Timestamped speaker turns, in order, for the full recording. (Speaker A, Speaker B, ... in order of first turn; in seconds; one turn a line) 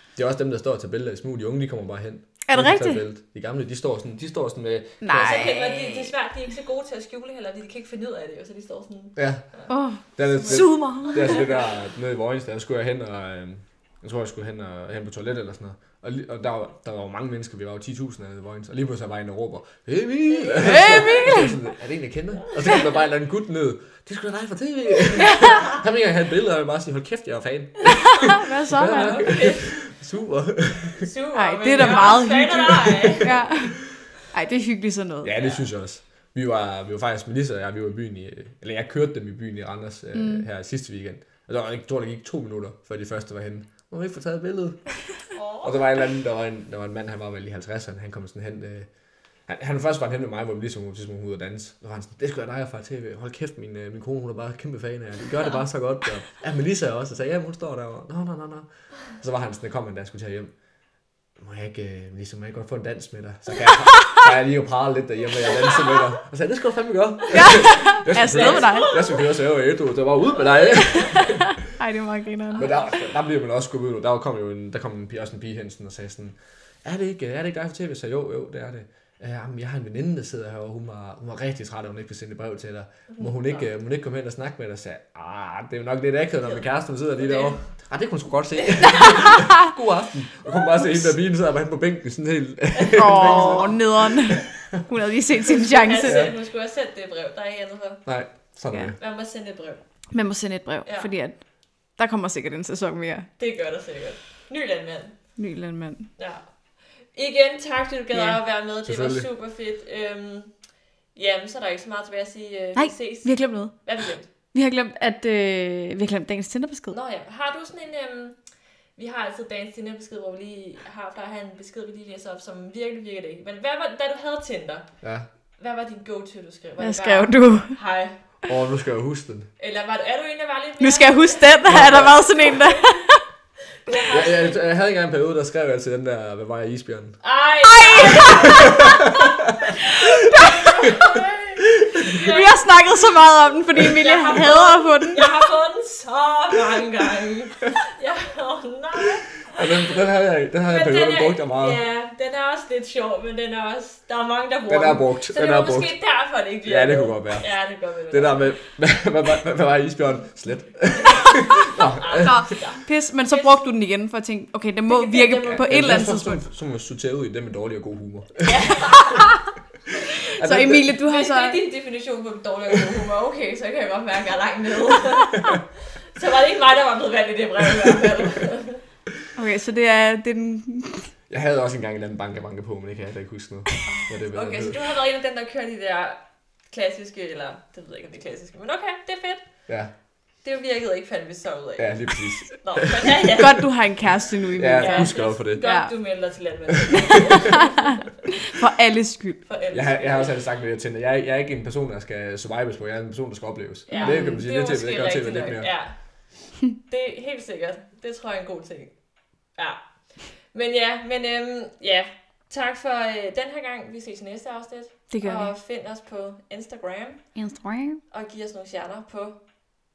Speaker A: 0.1-5.6
Speaker B: 2.5-3.0
Speaker B: 5.0-6.1
Speaker C: 5.1-9.7
Speaker A: 9.2-9.5
Speaker B: 9.7-11.4
Speaker A: 10.0-31.1
Speaker C: 10.5-11.7
Speaker C: 20.3-21.2
Speaker B: 20.6-21.6
Speaker C: 22.4-23.0
Speaker B: 25.2-25.6
Speaker C: 25.2-25.8
Speaker B: 27.9-29.3
Speaker C: 28.1-29.8
Speaker C: 30.9-33.3
Speaker B: 31.3-35.3
Speaker A: 31.7-34.0
Speaker A: 35.2-44.9
Speaker C: 35.4-35.6
Speaker B: 40.1-40.5
Speaker C: 45.3-45.8
Speaker A: 45.6-48.9
Speaker A: 49.5-60.5
Speaker A: 61.4-71.6
Speaker B: 67.3-68.9
Speaker C: 68.2-69.2
Speaker C: 70.4-71.2
Speaker B: 71.0-72.7
Speaker C: 72.5-73.0
Speaker A: 72.5-94.8
Speaker C: 83.1-83.7
Speaker C: 86.4-87.6
Speaker C: 88.6-89.4
Speaker C: 92.8-93.8
Speaker B: 92.9-96.3
Speaker C: 95.6-98.0
Speaker A: 96.0-96.3
Speaker A: 98.0-99.0
Speaker C: 99.0-99.8
Speaker B: 100.1-101.4
Speaker B: 102.0-103.3
Speaker C: 103.4-105.2
Speaker B: 105.4-106.1
Speaker C: 106.2-106.4
Speaker C: 106.9-110.5
Speaker A: 108.8-109.3
Speaker C: 111.1-114.3
Speaker B: 112.7-113.7
Speaker B: 114.5-116.9
Speaker C: 116.9-118.4
Speaker C: 119.0-124.9
Speaker A: 125.0-125.3
Speaker C: 125.6-128.2
Speaker B: 126.8-127.7
Speaker A: 128.5-129.5
Speaker C: 129.6-133.0
Speaker B: 130.8-133.2
Speaker A: 131.7-132.2
Speaker C: 133.8-134.6
Speaker A: 134.1-137.2
Speaker C: 137.2-142.6
Speaker B: 137.6-138.7
Speaker A: 138.2-139.6
Speaker B: 140.0-140.9
Speaker A: 140.9-141.2
Speaker B: 142.1-145.4
Speaker C: 143.8-149.9
Speaker A: 149.5-151.8
Speaker C: 150.6-158.6
Speaker A: 154.7-155.9
Speaker A: 156.6-157.5
Speaker A: 158.1-162.5
Speaker C: 160.9-163.6
Speaker B: 162.2-166.4
Speaker C: 164.9-166.1
Speaker A: 165.5-168.9
Speaker C: 168.4-169.3
Speaker B: 169.1-169.4
Speaker B: 170.2-171.6
Speaker A: 170.4-170.9
Speaker C: 171.0-175.6
Speaker C: 176.1-178.8
Speaker B: 179.3-181.1
Speaker A: 181.3-184.8
Speaker C: 183.9-189.4
Speaker C: 190.4-193.7
Speaker A: 191.8-193.4
Speaker B: 193.4-195.9
Speaker A: 194.6-195.6
Speaker C: 194.7-198.1
Speaker A: 196.9-197.2
Speaker B: 197.2-199.4
Speaker C: 199.4-200.3
Speaker A: 199.7-205.7
Speaker C: 203.9-208.9
Speaker B: 203.9-204.4
Speaker C: 209.5-217.3
Speaker B: 215.1-215.5
Speaker B: 217.3-218.0
Speaker C: 218.1-219.4